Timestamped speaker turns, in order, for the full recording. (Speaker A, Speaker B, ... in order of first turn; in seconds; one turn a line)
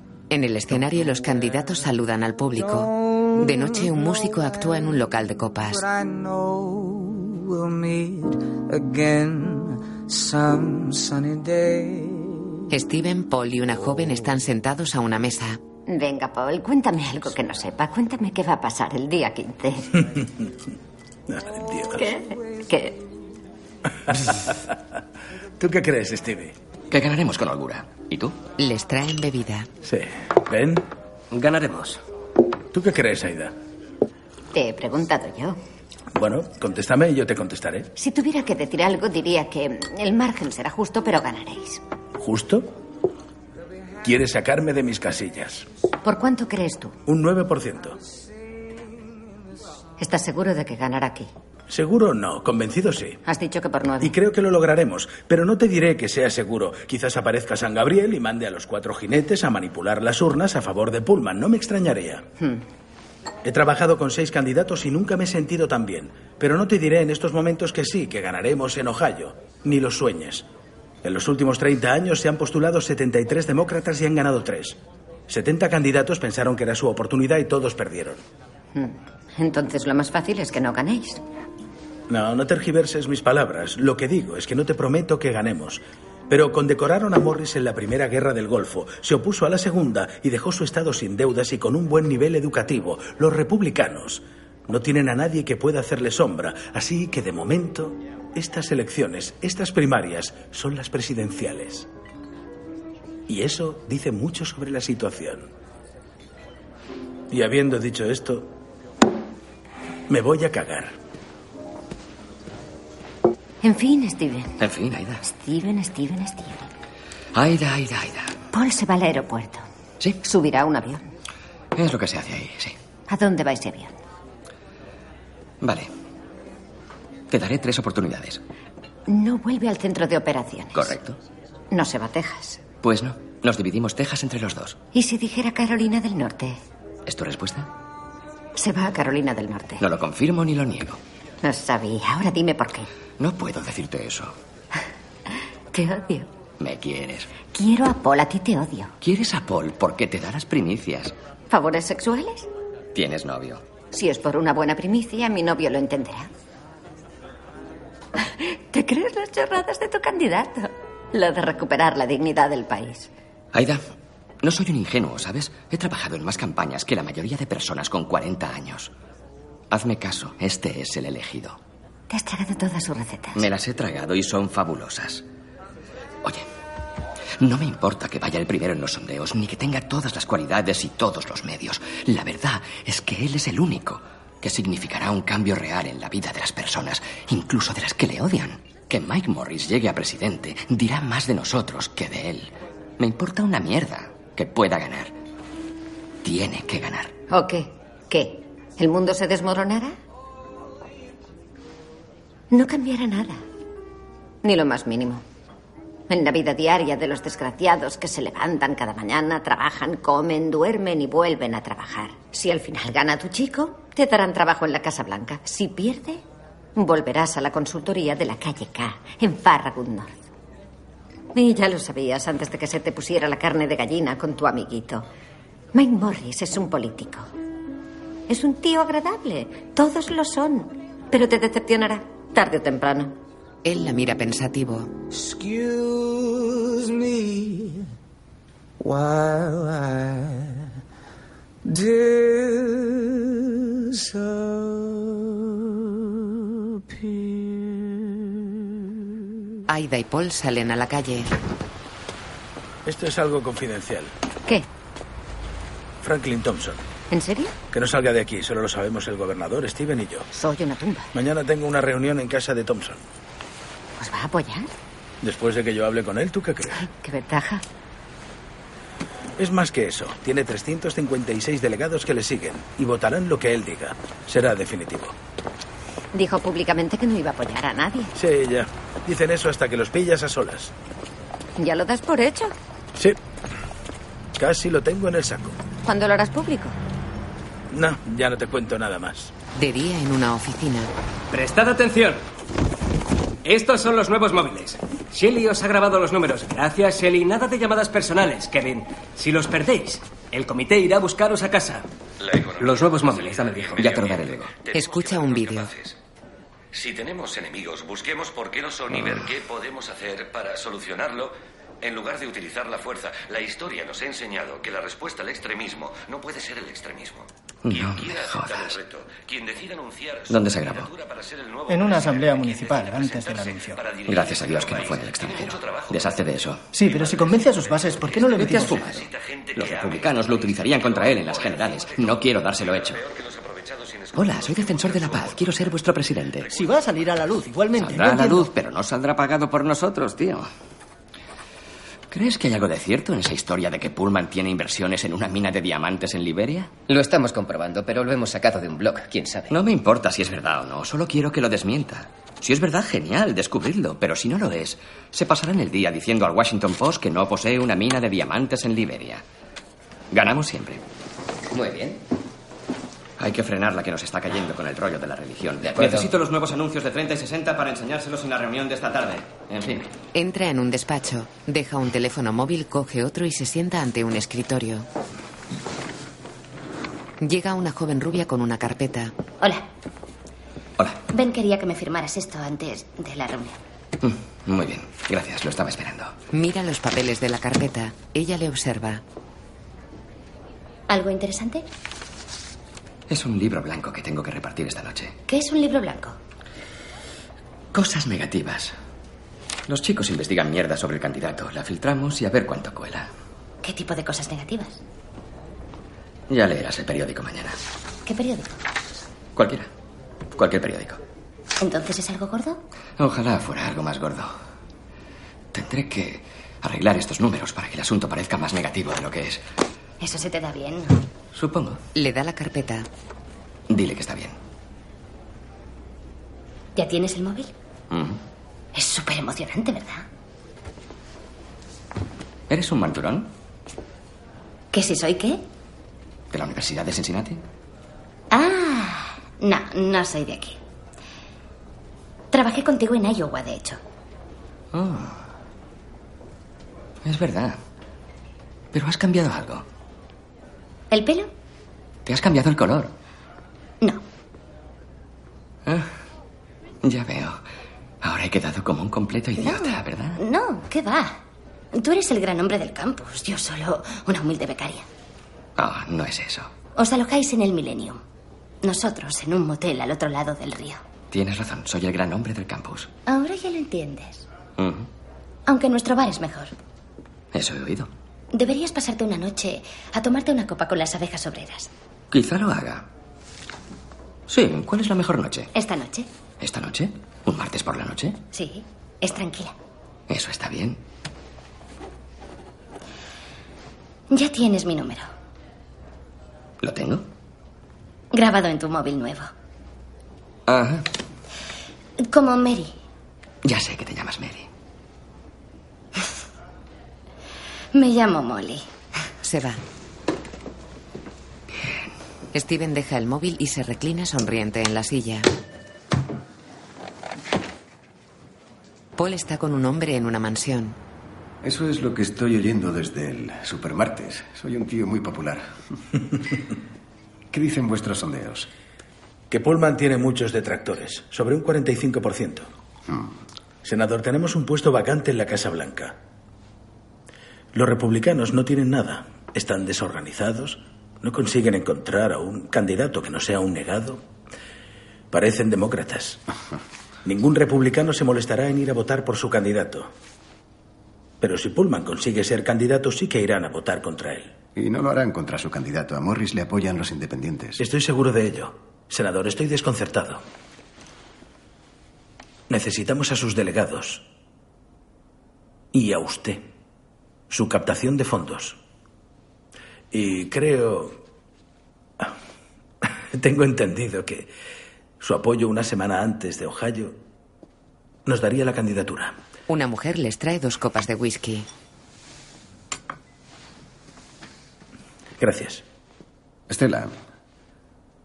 Speaker A: 0.3-5.8
Speaker B: 2.6-4.2
Speaker B: 5.7-12.5
Speaker A: 12.7-15.6
Speaker C: 15.9-20.1
Speaker D: 21.3-22.0
Speaker C: 21.9-23.0
Speaker D: 24.1-24.7
Speaker D: 25.6-26.5
Speaker E: 26.9-28.4
Speaker A: 28.6-29.7
Speaker D: 29.8-30.8
Speaker F: 31.3-32.0
Speaker D: 32.7-33.5
Speaker C: 34.5-35.6
Speaker D: 36.1-37.9
Speaker C: 38.0-41.8
Speaker D: 42.2-42.7
Speaker D: 44.0-45.6
Speaker C: 46.0-47.0
Speaker D: 47.1-48.0
Speaker C: 50.0-51.3
Speaker D: 51.7-53.2
Speaker C: 53.2-54.1
Speaker D: 54.0-62.2
Speaker D: 63.4-70.5
Speaker D: 71.0-78.2
Speaker C: 78.7-81.2
Speaker D: 82.1-101.9
Speaker D: 103.3-105.5
Speaker D: 107.3-108.5
Speaker D: 110.1-110.9
Speaker C: 113.6-114.5
Speaker E: 114.6-115.2
Speaker C: 115.2-116.7
Speaker E: 117.3-118.3
Speaker C: 118.5-119.6
Speaker C: 120.2-121.0
Speaker E: 121.8-122.8
Speaker C: 123.1-123.9
Speaker E: 125.6-125.9
Speaker E: 127.3-128.4
Speaker C: 129.1-130.9
Speaker E: 130.7-131.2
Speaker C: 131.7-132.6
Speaker E: 132.8-134.8
Speaker C: 134.9-136.6
Speaker E: 137.1-137.7
Speaker C: 138.6-139.8
Speaker E: 139.8-141.0
Speaker C: 141.4-142.9
Speaker E: 143.2-144.3
Speaker C: 145.7-146.3
Speaker E: 146.6-147.3
Speaker C: 147.5-148.9
Speaker E: 149.0-151.1
Speaker C: 151.5-152.5
Speaker E: 152.9-153.6
Speaker C: 153.9-156.3
Speaker C: 158.2-163.1
Speaker E: 163.5-163.8
Speaker E: 164.4-168.9
Speaker E: 169.7-171.6
Speaker C: 172.1-173.5
Speaker E: 173.3-175.2
Speaker E: 177.4-195.1
Speaker E: 196.2-197.1
Speaker C: 197.3-199.9
Speaker C: 202.5-203.4
Speaker C: 204.4-205.2
Speaker C: 206.1-216.2
Speaker C: 216.8-220.2
Speaker C: 221.3-225.1
Speaker C: 225.7-227.3
Speaker C: 228.3-233.1
Speaker A: 233.6-234.9
Speaker B: 235.1-237.8
Speaker B: 238.8-240.6
Speaker B: 241.6-245.6
Speaker B: 246.8-248.4
Speaker A: 249.7-251.3
Speaker D: 252.8-254.1
Speaker D: 256.0-256.8
Speaker C: 257.1-257.5
Speaker D: 257.7-260.3
Speaker C: 260.3-261.1
Speaker D: 261.1-263.0
Speaker C: 264.0-264.7
Speaker D: 265.2-266.8
Speaker C: 266.8-267.6
Speaker D: 269.4-275.1
Speaker C: 276.1-278.1
Speaker D: 278.2-280.7
Speaker C: 281.6-282.5
Speaker D: 284.4-285.6
Speaker C: 285.8-286.8
Speaker D: 287.7-289.3
Speaker A: 289.5-290.9
Speaker F: 291.3-292.2
Speaker F: 293.4-301.8
Speaker G: 302.2-306.0
Speaker F: 302.6-303.8
Speaker E: 303.8-304.5
Speaker A: 304.7-305.7
Speaker G: 306.7-326.1
Speaker E: 317.6-318.8
Speaker E: 320.3-320.9
Speaker H: 321.7-323.8
Speaker E: 324.1-326.6
Speaker H: 326.7-328.8
Speaker G: 326.8-335.7
Speaker E: 328.3-333.0
Speaker E: 334.1-336.5
Speaker H: 336.5-338.5
Speaker E: 337.7-340.5
Speaker E: 342.1-346.7
Speaker I: 346.9-349.5
Speaker E: 349.5-359.2
Speaker E: 360.1-360.8
Speaker I: 361.6-362.0
Speaker E: 363.2-369.9
Speaker A: 370.1-374.9
Speaker A: 377.2-379.1
Speaker J: 381.1-383.6
Speaker E: 384.0-386.1
Speaker A: 386.3-389.0
Speaker J: 390.9-391.6
Speaker E: 393.1-395.1
Speaker J: 395.3-396.2
Speaker E: 397.7-398.8
Speaker E: 399.7-403.1
Speaker J: 403.6-404.8
Speaker E: 406.3-407.6
Speaker J: 408.0-408.5
Speaker E: 409.4-409.7
Speaker E: 410.4-411.0
Speaker J: 411.6-412.6
Speaker E: 413.0-414.3
Speaker E: 415.5-419.4
Speaker J: 420.0-421.0
Speaker E: 421.3-421.8
Speaker A: 421.9-422.9
Speaker E: 423.7-424.4
Speaker J: 426.8-427.5
Speaker E: 427.9-428.2
Speaker J: 428.7-430.1
Speaker E: 432.5-433.3
Speaker J: 434.7-435.4
Speaker E: 436.3-437.4
Speaker J: 438.3-440.6
Speaker J: 442.3-443.8
Speaker E: 444.7-445.2
Speaker E: 447.0-447.6
Speaker E: 448.7-449.6
Speaker J: 450.9-451.3
Speaker E: 452.1-452.9
Speaker E: 455.6-455.9
Speaker E: 456.8-457.4
Speaker E: 458.0-460.2
Speaker J: 459.4-461.2
Speaker J: 461.7-464.9
Speaker E: 465.6-466.5
Speaker J: 466.8-468.0
Speaker J: 468.6-470.8
Speaker E: 471.1-472.9
Speaker J: 473.1-474.3
Speaker E: 474.6-474.9
Speaker J: 475.5-476.5
Speaker E: 477.3-477.9
Speaker J: 478.3-481.7
Speaker E: 482.1-482.9
Speaker E: 484.3-485.5
Speaker J: 485.5-486.1
Speaker E: 486.4-488.2
Speaker J: 488.3-489.5
Speaker E: 490.1-490.8
Speaker J: 494.1-495.1
Speaker E: 496.6-497.1
Speaker J: 498.1-499.3
Speaker E: 500.5-500.9
Speaker J: 502.0-502.7
Speaker E: 503.4-504.5
Speaker J: 507.7-508.6
Speaker A: 509.2-509.6
Speaker E: 511.6-511.8
Speaker A: 512.3-515.3
Speaker A: 519.0-520.8
Speaker K: 521.4-525.5
Speaker K: 527.3-528.5
Speaker D: 529.3-532.5
Speaker D: 533.6-535.9
Speaker D: 537.5-544.0
Speaker D: 545.1-546.2
Speaker D: 547.0-549.9
Speaker D: 551.2-554.4
Speaker K: 554.5-557.6
Speaker D: 557.6-560.2
Speaker D: 562.5-564.0
Speaker D: 565.7-566.4
Speaker D: 567.3-568.6
Speaker D: 569.9-571.0
Speaker D: 573.1-574.3
Speaker D: 575.0-577.0
Speaker D: 578.0-579.1
Speaker A: 579.5-581.5
Speaker D: 585.2-585.6
Speaker K: 586.5-587.0